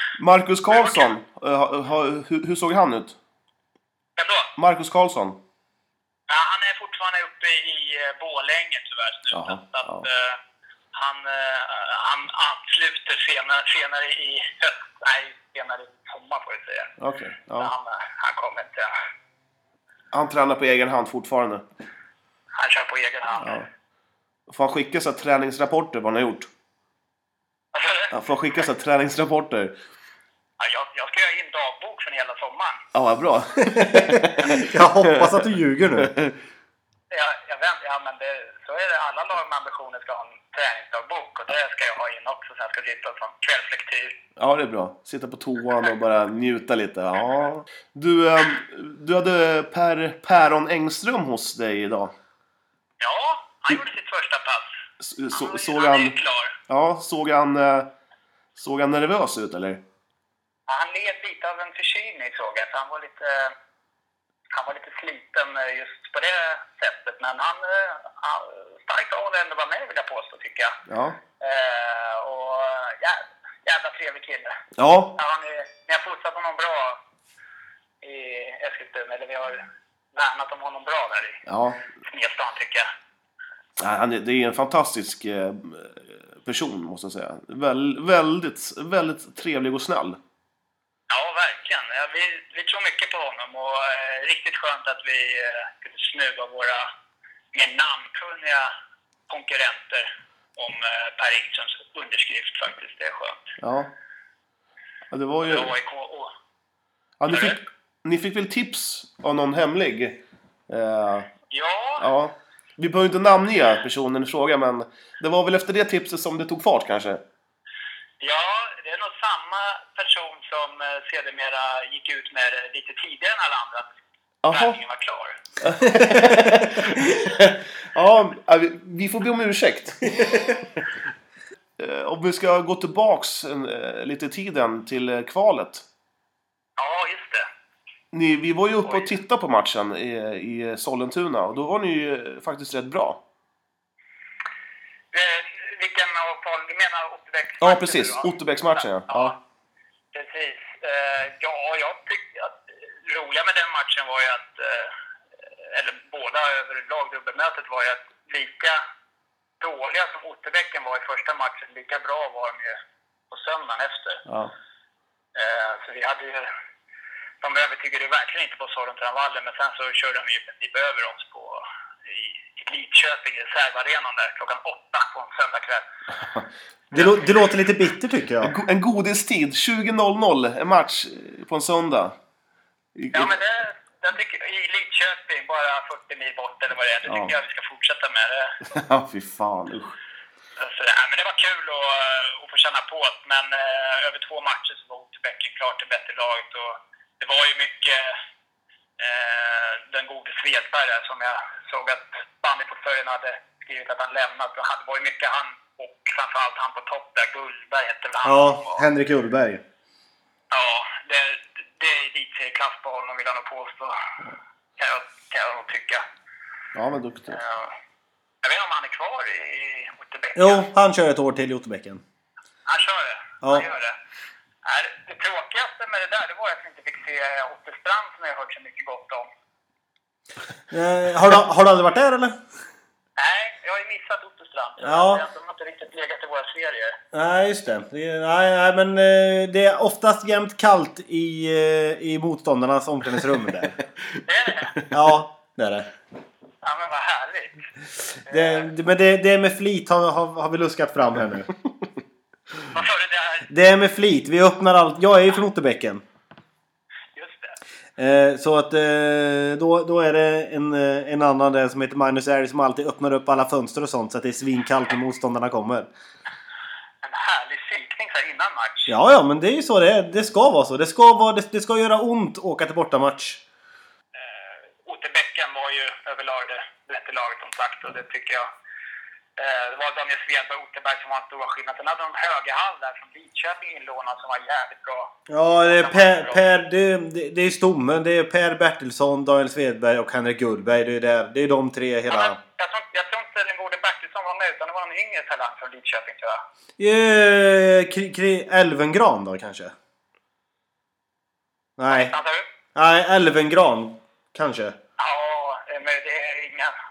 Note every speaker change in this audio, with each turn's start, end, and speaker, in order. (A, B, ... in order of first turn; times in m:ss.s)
0:00.2-0:03.2 A
0:00.7-0:01.1 B
0:04.2-0:04.5 B
0:04.6-0:05.4 A
0:06.3-0:10.4 B
0:09.3-0:10.1 A
0:10.9-0:16.9 B
0:17.0-0:17.7 A
0:17.6-0:18.9 B
0:20.1-0:21.6 A
0:22.5-0:23.6 B
0:23.4-0:23.7 A
0:24.5-0:26.5 A
0:27.7-0:28.1 B
0:28.1-0:29.7 A
0:30.6-0:32.8 B
0:32.9-0:35.4 A
0:33.7-0:36.1 C
0:36.0-0:36.3 A
0:37.1-0:44.1 B
0:44.4-0:52.1 A
0:53.0-0:54.7 B
0:55.0-0:56.1 A
0:55.3-0:56.5 B
0:56.7-0:57.9 A
0:58.5-0:59.8 A
1:00.7-1:03.5 B
1:04.5-1:10.8 B
1:10.9-1:11.2 A
1:11.4-1:14.5 B
1:14.8-1:15.1 A
1:15.2-1:17.0 B
1:18.0-1:21.4 B
1:21.5-1:21.8 A
1:22.0-1:22.9 B
1:23.8-1:30.2 A
1:31.1-1:36.9 B
1:37.5-1:38.7 B
1:39.3-1:43.5 B
1:43.6-1:43.9 A
1:45.1-1:45.7 A
1:45.4-1:46.3 B
1:47.2-1:51.3 A
1:47.3-1:47.6 B
1:51.5-1:52.1 B
1:52.0-1:57.2 A
1:58.2-2:03.9 B
2:04.4-2:04.8 A
2:04.5-2:05.4 B
2:05.6-2:10.6 A
2:05.9-2:06.6 C
2:11.8-2:15.8 A
2:16.8-2:17.5 B
2:18.1-2:23.2 A
2:25.1-2:29.3 B
2:27.6-2:29.3 A
2:30.1-2:34.9 B
2:35.6-2:38.8 B
2:39.6-2:42.7 B
2:43.3-2:44.2 B
2:44.3-2:44.5 A
2:45.4-2:46.5 B
2:47.4-2:55.8 B
2:56.3-2:57.1 A
2:56.9-2:58.5 C
2:58.4-3:02.2 A
3:02.9-3:03.4 A
3:03.1-3:08.6 B
3:07.1-3:07.3 A
3:08.7-3:10.0 A
3:10.6-3:18.1 B
3:19.0-3:28.8 B
3:28.2-3:29.6 C
3:30.5-3:34.0 B
3:34.8-3:36.0 B
3:36.7-3:37.4 A
3:37.3-3:37.7 B
3:38.4-3:40.7 B
3:40.4-3:42.0 C
3:42.7-3:43.9 B
3:43.4-3:43.7 C
3:44.6-3:49.3 B
3:50.7-3:52.4 C
3:53.2-3:57.0 B
3:54.8-3:55.2 C
3:57.1-4:03.8 C
4:04.2-4:04.8 B
4:04.9-4:05.9 C
4:06.6-4:07.6 B
4:08.2-4:08.7 B
4:08.3-4:11.5 C
4:12.7-4:13.5 B
4:13.5-4:16.0 C
4:17.1-4:17.6 B
4:18.0-4:25.9 C
4:27.0-4:28.9 B
4:28.9-4:33.4 C
4:34.2-4:38.5 B
4:39.4-4:46.4 B
4:45.3-4:52.4 C
4:52.1-4:56.4 B
4:56.8-4:59.7 C
5:01.8-5:02.1 C
5:01.9-5:02.4 B
5:02.7-5:04.8 C
5:05.0-5:06.7 B